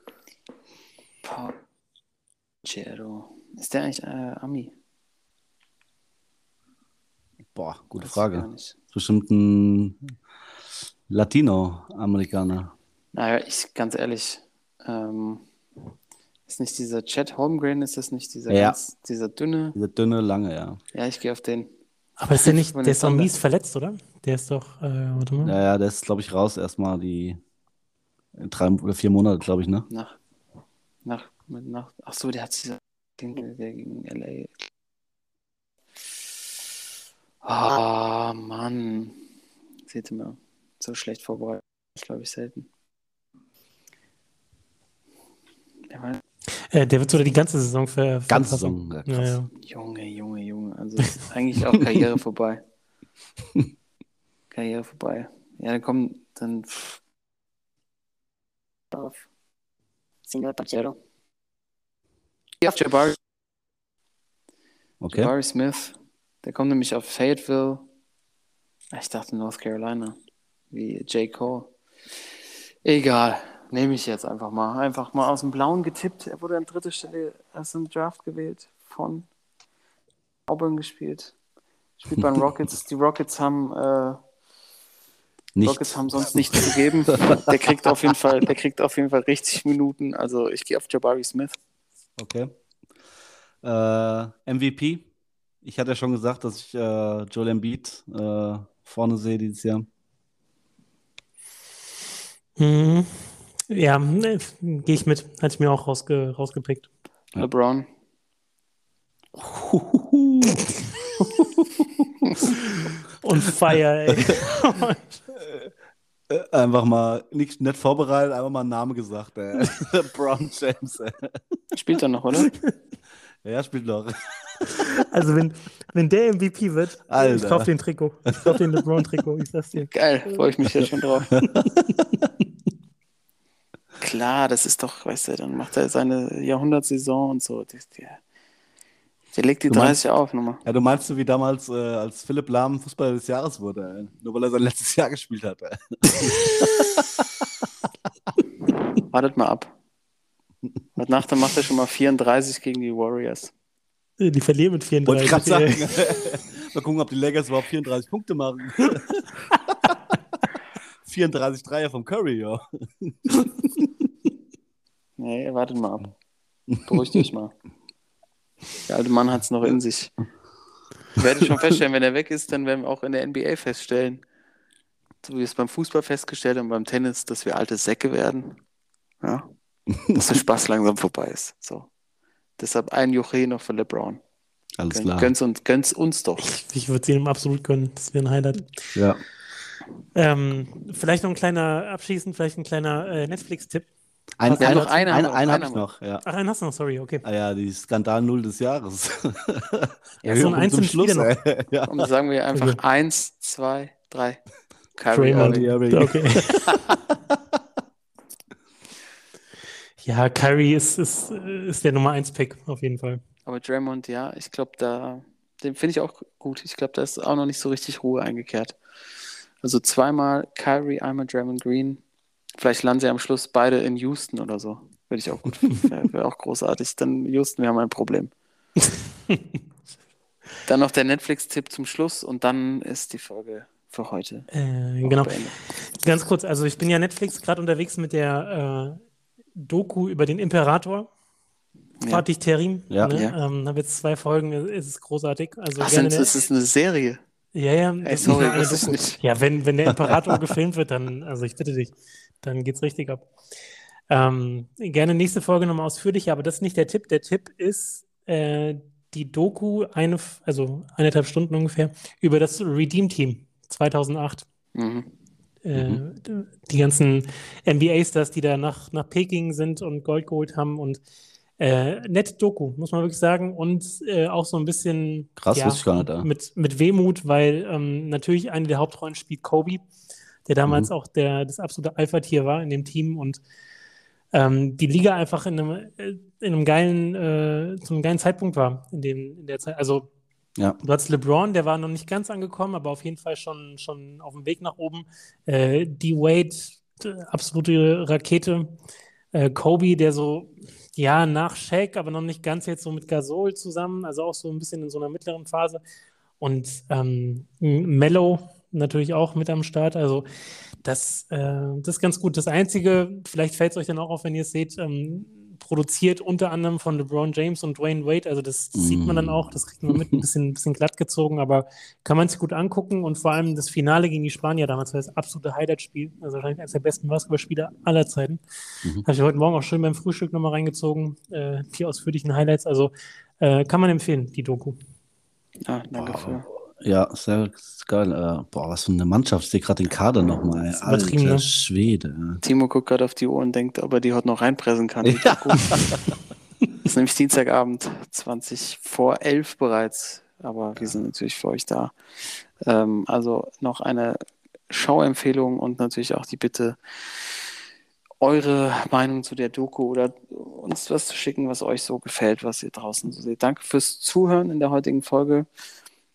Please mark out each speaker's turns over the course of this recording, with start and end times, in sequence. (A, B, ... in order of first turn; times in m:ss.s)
0:01.2-0:01.6 A
0:02.6-0:04.7 A
0:07.5-0:10.0 B
0:08.0-0:08.7 A
0:11.1-0:12.7 B
0:13.1-0:15.5 A
0:16.5-0:19.8 A
0:18.5-0:18.8 B
0:19.7-0:20.8 B
0:20.9-0:21.7 A
0:22.2-0:25.6 C
0:22.6-0:23.3 A
0:25.4-0:27.4 B
0:28.4-0:29.9 B
0:29.9-0:30.2 A
0:31.0-0:34.7 A
0:37.4-0:39.2 A
0:39.9-0:42.7 A
0:45.9-0:46.2 A
0:46.7-0:49.5 C
0:48.3-0:49.3 B
0:49.6-0:52.6 A
0:54.5-0:57.0 A
1:02.6-1:03.2 A
1:05.0-1:05.3 B
1:05.1-1:07.8 A
1:08.9-1:10.2 A
1:10.7-1:11.7 A
1:12.8-1:19.3 A
1:20.5-1:21.3 A
1:22.0-1:24.2 A
1:25.6-1:26.7 B
1:25.6-1:31.6 A
1:32.2-1:32.5 B
1:33.6-1:35.0 B
1:35.6-1:39.9 B
1:42.6-1:46.9 C
1:47.4-1:47.9 A
1:49.4-1:50.6 B
1:51.2-1:51.6 B
1:52.4-1:55.2 C
1:54.1-1:54.4 B
1:56.3-2:01.4 B
2:01.7-2:02.5 A
2:03.4-2:04.7 B
2:04.8-2:09.9 C
2:07.1-2:07.7 B
2:09.9-2:11.3 A
2:14.0-2:18.2 A
2:19.3-2:20.6 A
2:19.7-2:20.0 B
2:20.6-2:27.4 B
2:29.1-2:29.7 A
2:31.0-2:33.5 A
2:34.2-2:35.8 C
2:35.0-2:39.2 B
2:41.0-2:43.9 B
2:45.2-2:46.1 A
2:46.8-2:47.5 A
2:48.8-2:50.1 A
2:51.2-2:54.2 A
2:55.2-2:58.6 A
2:59.2-2:59.5 A
3:00.1-3:01.9 A
3:02.6-3:04.2 A
3:04.8-3:05.3 B
3:04.9-3:06.5 A
3:06.4-3:09.0 C
3:08.9-3:09.2 B
3:10.1-3:13.9 C
3:14.4-3:16.2 B
3:14.4-3:15.1 C
3:14.6-3:15.9 A
3:16.2-3:17.2 C
3:17.2-3:22.0 B
3:20.2-3:20.6 A
3:20.3-3:21.3 C
3:21.9-3:24.4 A
3:22.5-3:22.8 C
3:24.9-3:25.8 A
3:25.1-3:26.7 C
3:25.3-3:27.4 B
3:30.0-3:33.2 C
3:33.4-3:38.8 A
3:39.6-3:42.0 A
3:42.6-3:48.3 A
3:50.6-3:54.5 A
3:54.5-3:59.0 C
3:55.0-3:55.6 A
3:59.6-4:01.1 C
4:02.1-4:06.4 C
4:02.9-4:03.2 B
4:03.1-4:03.3 A
4:05.8-4:07.2 A
4:07.5-4:13.3 C
4:08.0-4:09.2 A
4:10.1-4:10.3 B
4:14.1-4:24.4 C
4:24.7-4:25.1 A
4:25.6-4:31.0 C
4:25.7-4:26.0 B
4:31.6-4:39.8 C
4:35.4-4:36.3 B
4:40.5-4:43.4 C
4:44.3-4:50.1 C
4:50.8-4:58.7 C
4:59.3-5:05.8 C
5:06.4-5:10.2 C
5:10.8-5:28.4 C
5:18.8-5:20.2 B
5:29.0-5:34.8 C
5:35.6-5:36.5 A
5:35.9-5:42.4 B
5:40.8-5:41.4 C
5:42.4-5:45.8 A
5:45.2-5:45.9 B
5:46.8-5:51.9 A
5:52.6-5:57.4 A
5:58.2-6:05.5 A